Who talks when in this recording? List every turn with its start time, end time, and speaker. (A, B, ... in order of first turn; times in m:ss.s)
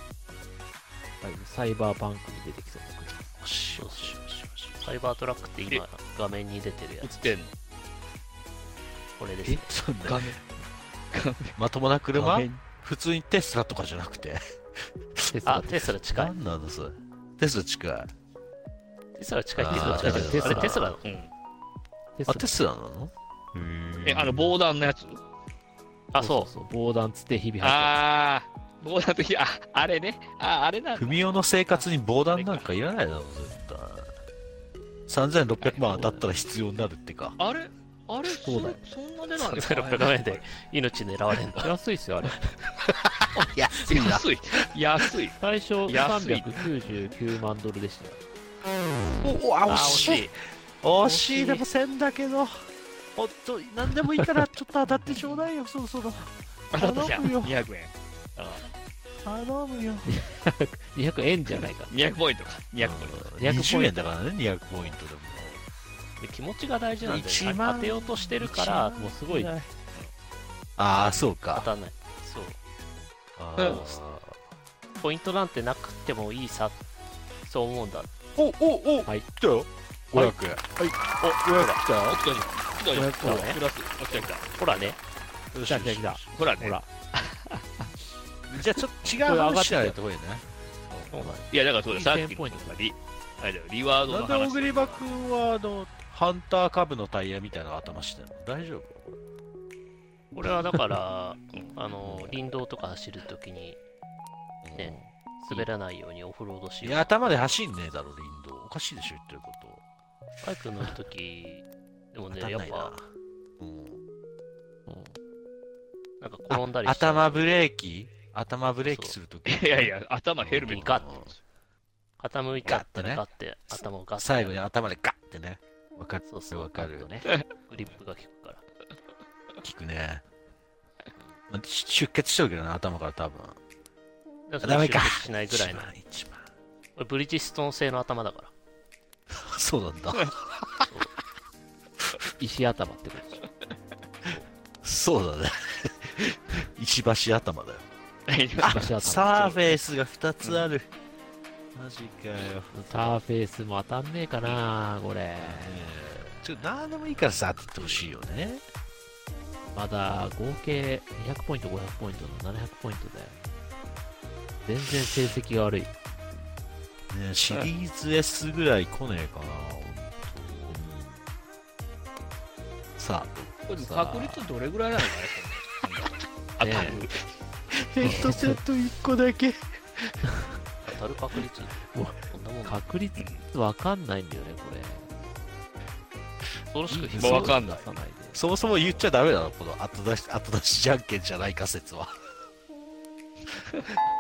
0:01.2-0:03.2 A
0:03.3-0:04.8 B
0:03.8-0:04.2 C
0:04.8-0:07.3 C
0:07.0-0:07.5 D
0:09.2-0:09.7 C
0:09.4-0:10.4 B
0:10.0-0:10.4 D
0:11.1-0:11.6 D
0:11.6-0:14.4 B
0:12.1-0:12.6 D
0:15.3-0:15.9 A
0:15.4-0:16.3 C
0:16.1-0:18.1 B
0:19.2-0:21.0 C
0:19.6-0:20.9 B
0:19.7-0:20.9 A
0:21.0-0:21.3 D
0:22.2-0:22.5 A
0:22.3-0:24.5 B
0:24.0-0:25.2 D
0:26.1-0:26.5 C
0:26.2-0:28.0 A
0:27.6-0:31.4 D
0:31.0-0:34.1 B
0:32.3-0:32.7 D
0:35.1-0:37.4 B
0:35.8-0:36.2 A
0:37.4-0:40.4 D
0:38.4-0:38.8 A
0:39.4-0:41.7 C
0:41.6-0:42.4 A
0:42.9-0:44.3 B
0:43.8-0:46.7 D
0:45.4-0:48.2 A
0:49.2-0:52.6 B
0:49.7-0:50.3 A
0:51.0-0:51.6 A
0:53.2-0:57.6 B
0:56.7-0:58.6 D
0:59.2-1:00.1 B
1:00.1-1:01.9 A
1:01.9-1:03.3 D
1:02.8-1:05.6 B
1:03.4-1:04.1 A
1:06.2-1:09.0 C
1:07.0-1:09.7 B
1:08.9-1:09.5 A
1:10.8-1:11.7 B
1:11.5-1:12.6 C
1:13.4-1:14.4 B
1:15.0-1:16.8 C
1:17.4-1:18.1 C
1:18.4-1:20.8 B
1:20.2-1:20.9 A
1:21.2-1:21.7 C
1:21.4-1:21.8 B
1:21.5-1:24.9 D
1:22.9-1:23.6 A
1:24.6-1:25.0 C
1:25.5-1:26.5 B
1:25.7-1:26.9 A
1:26.3-1:27.9 D
1:28.5-1:30.4 B
1:29.2-1:30.0 A
1:30.9-1:35.0 D
1:31.1-1:31.4 C
1:31.2-1:32.8 A
1:34.1-1:39.1 B
1:40.3-1:43.8 C
1:42.0-1:42.4 B
1:44.6-1:44.9 B
1:44.8-1:47.2 C
1:44.8-1:45.7 A
1:46.8-1:49.8 B
1:50.4-1:52.9 C
1:52.3-1:54.0 B
1:54.9-1:55.2 A
1:56.2-1:57.5 C
1:56.5-2:01.3 B
1:58.8-1:59.2 C
1:59.5-2:01.3 D
2:00.6-2:01.1 C
2:02.2-2:04.6 C
2:02.6-2:03.2 B
2:04.2-2:07.1 B
2:06.3-2:08.6 C
2:09.6-2:10.2 B
2:11.5-2:13.6 B
2:14.5-2:15.9 C
2:14.6-2:16.4 B
2:17.0-2:18.5 C
2:19.3-2:20.9 B
2:22.4-2:23.4 A
2:24.8-2:27.9 B
2:28.3-2:29.6 D
2:28.6-2:30.9 B
2:28.6-2:29.6 A
2:31.7-2:33.2 B
2:32.7-2:35.8 A
2:35.4-2:38.6 B
2:37.8-2:38.1 A
2:39.7-2:43.5 A
2:44.6-2:45.9 A
2:47.1-2:50.8 B
2:50.7-2:51.2 A
2:53.0-2:53.3 B
2:53.6-2:57.2 D
2:53.8-2:54.5 A
2:56.6-2:57.0 A
2:57.7-3:00.2 B
2:58.0-2:58.4 D
2:58.0-2:58.6 A
3:00.8-3:02.8 C
3:01.9-3:05.2 A
3:03.2-3:03.4 D
3:06.7-3:07.6 C
3:06.9-3:08.4 A
3:07.1-3:07.8 B
3:07.2-3:07.9 D
3:08.3-3:12.3 B